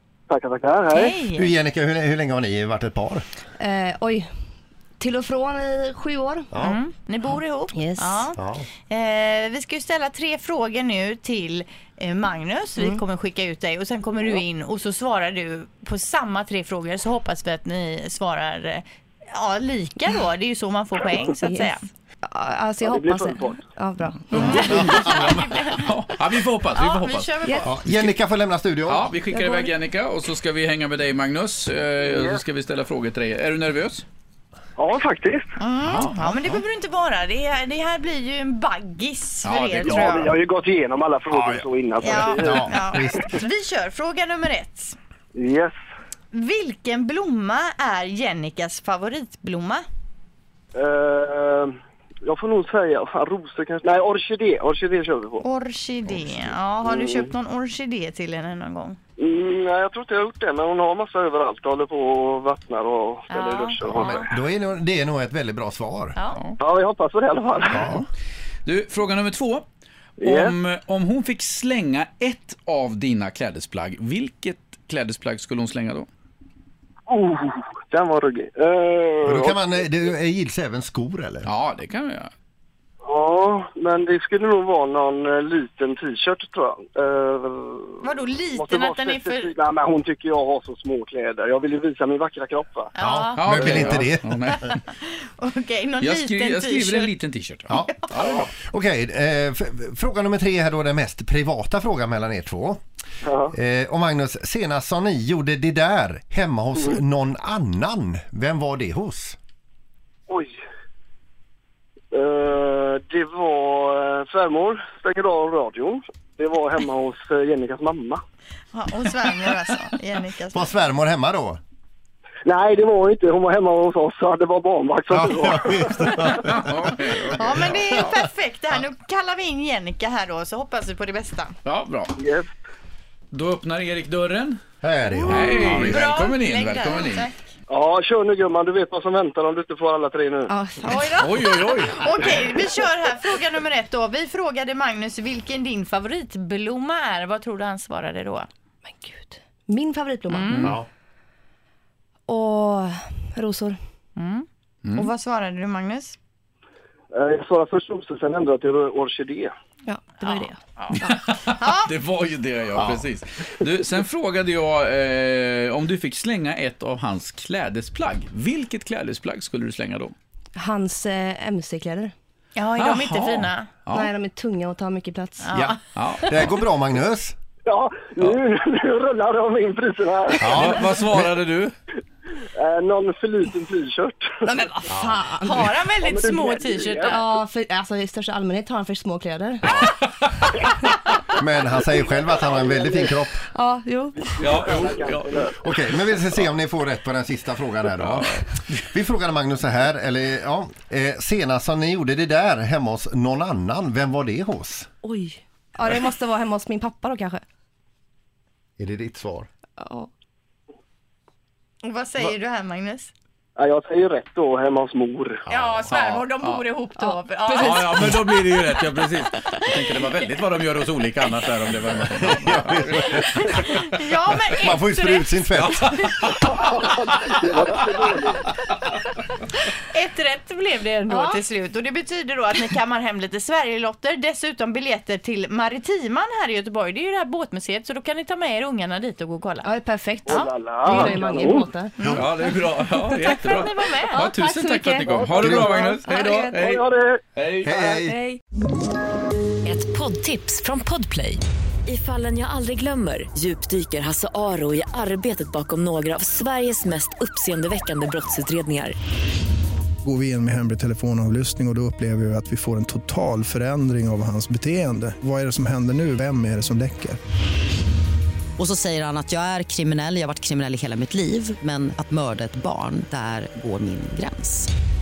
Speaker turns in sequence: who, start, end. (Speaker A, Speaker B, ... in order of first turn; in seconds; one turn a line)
Speaker A: 0.3-1.2
Speaker B: 0.9-1.5
Speaker C: 1.4-3.2
Speaker D: 3.6-4.3
Speaker D: 5.0-6.5
Speaker C: 6.5-6.8
Speaker B: 6.6-21.8
Speaker D: 7.7-8.3
Speaker C: 8.4-8.7
Speaker D: 21.5-25.1
Speaker A: 22.8-23.6
Speaker E: 24.3-27.3
Speaker B: 24.4-25.9
Speaker B: 26.7-27.7
Speaker D: 27.4-27.7
Speaker C: 27.6-29.1
Speaker E: 28.9-34.0
Speaker D: 29.3-29.7
Speaker A: 32.0-32.4
Speaker A: 34.8-35.5
Speaker B: 35.6-40.3
Speaker E: 35.8-36.6
Speaker E: 39.4-40.3
Speaker A: 39.8-43.4
Speaker C: 41.3-41.6
Speaker B: 42.0-45.0
Speaker C: 42.2-43.4
Speaker A: 45.4-45.7
Speaker B: 46.3-49.8
Speaker A: 50.7-51.7
Speaker A: 52.2-55.4
Speaker B: 55.4-59.0
Speaker E: 56.1-56.4
Speaker A: 56.8-57.3
Speaker A: 59.2-64.3
Speaker B: 63.3-64.3
Speaker C: 64.0-66.2
Speaker B: 66.2-66.5
Speaker A: 66.6-67.9
Speaker C: 67.7-68.1
Speaker E: 68.7-69.7
Speaker A: 70.2-70.5
Speaker E: 70.2-76.1
Speaker A: 77.1-79.8
Speaker C: 79.3-81.5
Speaker E: 81.4-82.3
Speaker A: 83.0-88.0
Speaker B: 88.0-89.5
Speaker A: 88.5-92.9
Speaker B: 93.0-97.1
Speaker C: 93.0-94.6
Speaker E: 93.4-94.8
Speaker E: 96.0-98.5
Speaker C: 97.7-102.8
Speaker B: 97.7-98.1
Speaker A: 103.2-103.5
Speaker C: 103.5-109.4
Speaker A: 110.3-110.5
Speaker A: 112.1-118.2
Speaker B: 118.7-120.7
Speaker C: 120.5-121.6
Speaker A: 122.5-126.4
Speaker C: 125.1-126.7
Speaker E: 126.3-128.1
Speaker B: 127.4-131.6
Speaker C: 127.5-127.9
Speaker E: 131.6-132.2
Speaker A: 132.2-132.5
Speaker E: 133.3-134.6
Speaker C: 134.8-136.1
Speaker E: 135.3-137.3
Speaker B: 135.3-137.3
Speaker A: 137.7-140.5
Speaker D: 140.5-141.2
Speaker B: 140.8-148.5
Speaker E: 141.2-142.4
Speaker D: 148.9-150.8
Speaker B: 150.3-150.8
Speaker D: 152.3-153.8
Speaker B: 154.2-156.2
Speaker A: 157.1-159.5
Speaker D: 159.9-161.2
Speaker B: 160.2-160.9
Speaker E: 160.9-170.1
Speaker B: 161.5-161.9
Speaker D: 170.6-172.1
Speaker B: 172.6-173.7
Speaker E: 172.8-174.1
Speaker D: 173.9-175.5
Speaker B: 175.4-175.8
Speaker C: 175.5-177.3
Speaker E: 175.9-176.5
Speaker A: 177.7-180.8
Speaker C: 180.4-181.3
Speaker E: 180.4-181.7
Speaker A: 182.6-184.3
Speaker D: 184.4-185.8
Speaker B: 185.4-187.2
Speaker A: 186.0-187.2
Speaker D: 187.1-189.7
Speaker E: 189.8-190.6
Speaker C: 191.4-193.4
Speaker A: 192.2-193.1
Speaker D: 193.4-194.8
Speaker A: 194.2-195.6
Speaker E: 194.4-195.5
Speaker C: 195.6-204.9
Speaker E: 198.0-198.8
Speaker D: 205.0-207.4
Speaker C: 208.8-209.5
Speaker D: 209.8-210.1
Speaker B: 211.8-213.1
Speaker A: 213.6-215.4
Speaker B: 215.5-218.2
Speaker C: 215.5-216.0
Speaker E: 217.5-223.8
Speaker C: 222.2-223.5
Speaker B: 223.1-226.2
Speaker C: 224.6-225.9
Speaker E: 225.6-226.6
Speaker A: 226.4-228.5
Speaker B: 229.9-239.7
Speaker D: 231.1-231.4
Speaker D: 239.6-242.0
Speaker A: 240.2-241.7
Speaker E: 242.1-246.8
Speaker B: 243.0-244.3
Speaker D: 244.1-246.6
Speaker C: 245.4-245.7
Speaker A: 246.1-247.2
Speaker E: 247.3-247.9
Speaker C: 247.6-248.2
Speaker D: 247.7-248.4
Speaker F: 249.7-259.0
Speaker G: 260.0-267.2
Speaker H: 268.6-274.7